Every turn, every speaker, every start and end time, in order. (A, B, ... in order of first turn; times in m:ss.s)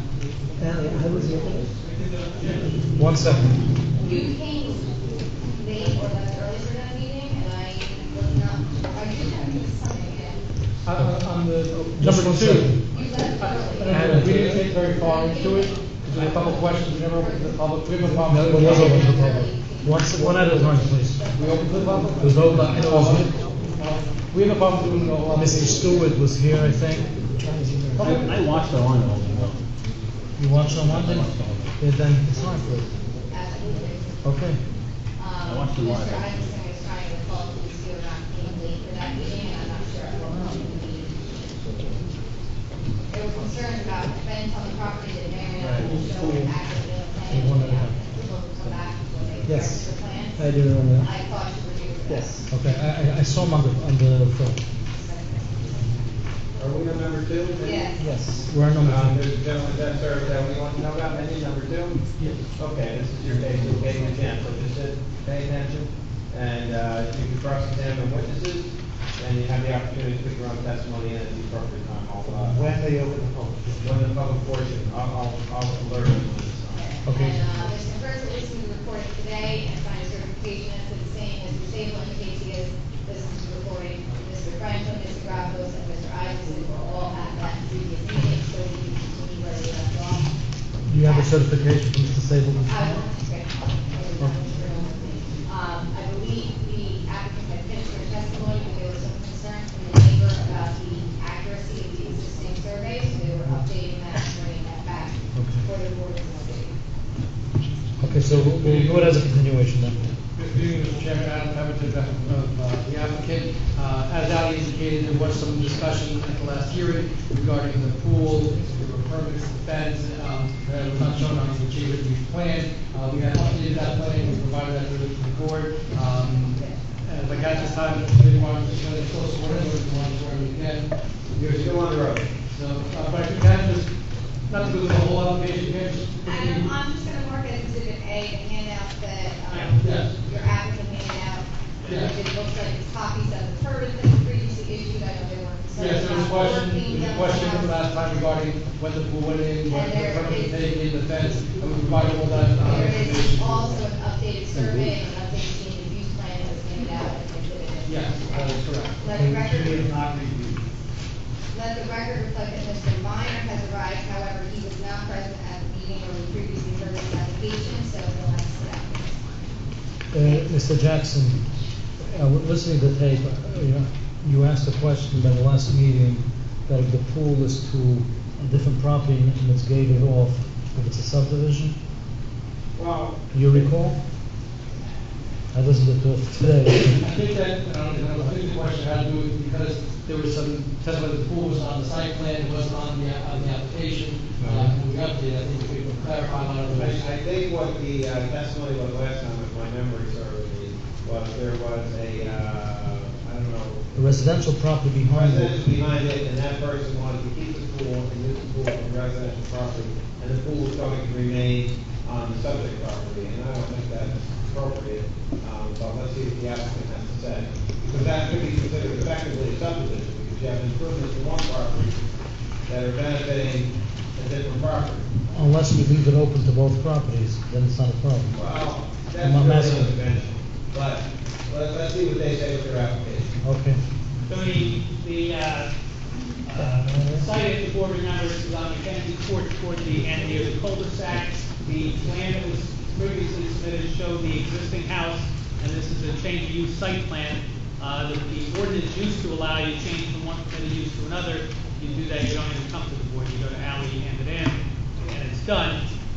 0:00.6-0:01.6 A
0:01.8-0:02.8 B
0:03.0-0:03.5 C
0:04.0-0:04.9 D
0:05.6-0:10.4 D
0:10.8-0:12.8 E
0:12.0-0:12.8 C
0:12.9-0:17.6 D
0:13.3-0:19.4 E
0:13.8-0:14.6 C
0:18.3-0:21.3 C
0:18.5-0:22.3 D
0:20.4-0:20.6 E
0:21.3-0:26.0 E
0:22.2-0:23.3 C
0:25.3-0:27.1 C
0:27.5-0:28.1 A
0:28.0-0:28.3 E
0:28.0-0:29.6 F
0:30.4-0:32.9 C
0:30.7-0:31.7 F
0:33.3-0:34.2 D
0:34.2-0:34.6 C
0:35.2-0:41.2 D
0:35.5-0:36.6 F
0:43.1-0:52.5 D
0:47.3-0:48.0 C
0:50.4-0:51.1 A
0:52.1-0:52.4 A
0:52.5-0:54.6 C
0:54.9-0:55.7 D
0:56.6-0:57.9 G
0:57.6-0:58.2 D
0:58.0-0:58.4 A
0:58.5-0:59.2 C
0:58.8-1:12.6 G
1:12.5-1:13.8 A
1:13.8-1:16.8 G
1:16.7-1:30.4 D
1:17.0-1:17.4 C
1:30.9-1:33.0 C
1:31.0-1:31.4 D
1:32.7-1:46.7 D
1:45.4-1:45.6 C
1:48.0-1:50.0 C
1:48.2-1:49.2 E
1:50.3-2:10.9 E
2:06.0-2:07.9 D
2:11.4-2:12.2 G
2:12.5-2:13.9 E
2:14.5-2:16.7 E
2:16.2-2:27.8 D
2:19.5-2:19.8 B
2:19.8-2:20.1 E
2:21.8-2:22.1 B
2:21.9-2:22.1 E
2:25.8-2:33.8 E
2:29.7-2:30.6 D
2:32.6-2:39.9 D
2:37.8-2:39.1 E
2:39.2-2:39.9 C
2:39.9-2:40.3 G
2:41.5-2:49.5 D
2:50.1-2:51.4 C
2:50.2-2:50.6 D
2:52.0-3:01.8 C
3:02.8-3:03.6 G
3:03.3-3:04.0 C
3:05.5-3:07.0 C
3:07.0-3:17.1 E
3:14.4-3:14.7 G
3:16.7-3:23.8 G
3:23.9-3:25.6 C
3:25.1-3:42.0 G
3:42.7-3:45.0 G
3:45.3-3:48.4 C
3:48.3-3:53.3 G
3:49.2-3:49.9 C
3:53.4-3:53.8 C
3:54.3-3:55.7 B
3:56.4-4:15.8 B